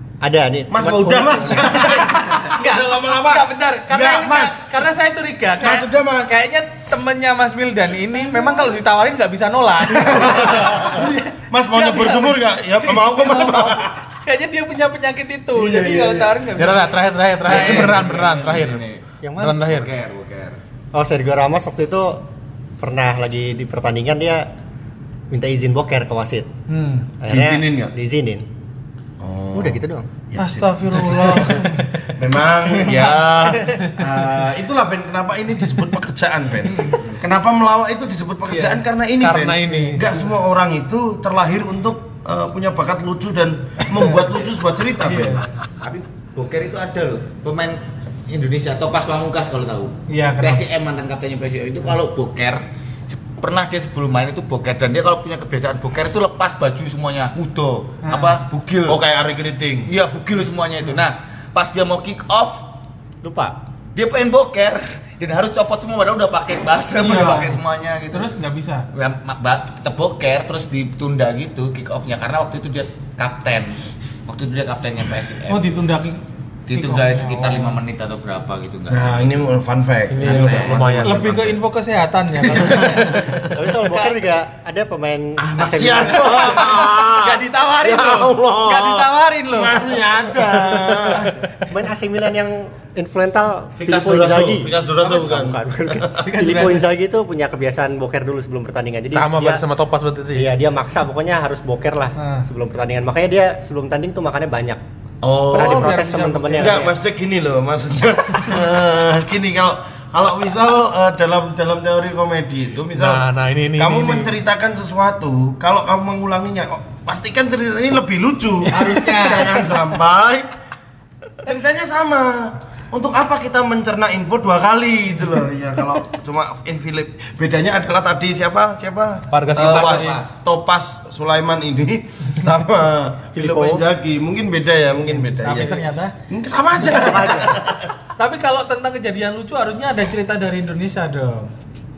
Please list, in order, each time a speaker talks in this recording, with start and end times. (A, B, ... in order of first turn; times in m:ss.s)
0:00.2-0:02.0 A
0:00.7-0:04.7 B
0:01.7-0:11.1 C
0:05.6-0:06.4 B
0:10.0-0:14.0 B
0:11.7-0:18.1 C
0:15.6-0:16.5 B
0:16.6-0:18.9 D
0:17.5-0:19.0 E
0:19.2-0:19.7 A
0:19.4-0:19.9 D
0:19.6-0:20.6 E
0:20.9-0:22.2 A
0:22.8-0:24.5 A
0:25.3-0:26.5 A
0:26.7-0:27.1 C
0:27.2-0:28.5 A
0:27.3-0:27.9 B
0:29.2-0:45.4 B
0:29.5-0:30.1 A
0:30.4-0:32.0 C
0:32.8-0:34.0 C
0:38.5-0:38.8 C
0:39.2-0:40.1 D
0:45.0-0:45.4 C
0:45.8-0:59.0 E
0:50.1-0:50.7 C
0:58.0-0:58.4 C
0:58.9-0:59.9 B
0:59.9-1:02.6 E
1:03.2-1:03.6 A
1:04.0-1:08.3 E
1:07.0-1:07.6 C
1:08.1-1:08.9 C
1:08.9-1:15.7 E
1:15.5-1:16.2 C
1:16.7-1:19.4 E
1:16.7-1:17.8 C
1:18.9-1:21.0 B
1:20.1-1:21.5 D
1:20.2-1:21.6 E
1:21.0-1:23.3 C
1:22.5-1:23.5 B
1:23.5-1:26.8 A
1:23.9-1:24.2 C
1:25.4-1:31.3 B
1:26.2-1:29.8 C
1:31.1-1:31.5 C
1:31.7-1:39.6 A
1:33.8-1:36.2 B
1:36.2-1:36.9 C
1:39.1-1:40.5 D
1:40.3-1:44.8 A
1:42.2-1:42.5 C
1:45.2-1:46.0 B
1:45.4-1:47.0 A
1:45.5-1:46.9 C
1:46.6-1:53.2 B
1:53.0-1:54.3 D
1:53.8-2:00.5 B
1:58.7-1:59.5 C
1:58.9-1:59.4 D
2:01.4-2:17.9 B
2:09.3-2:10.2 D
2:09.6-2:10.2 E
2:13.4-2:13.8 A
2:15.1-2:16.2 C
2:17.0-2:17.6 A
2:18.2-2:21.5 C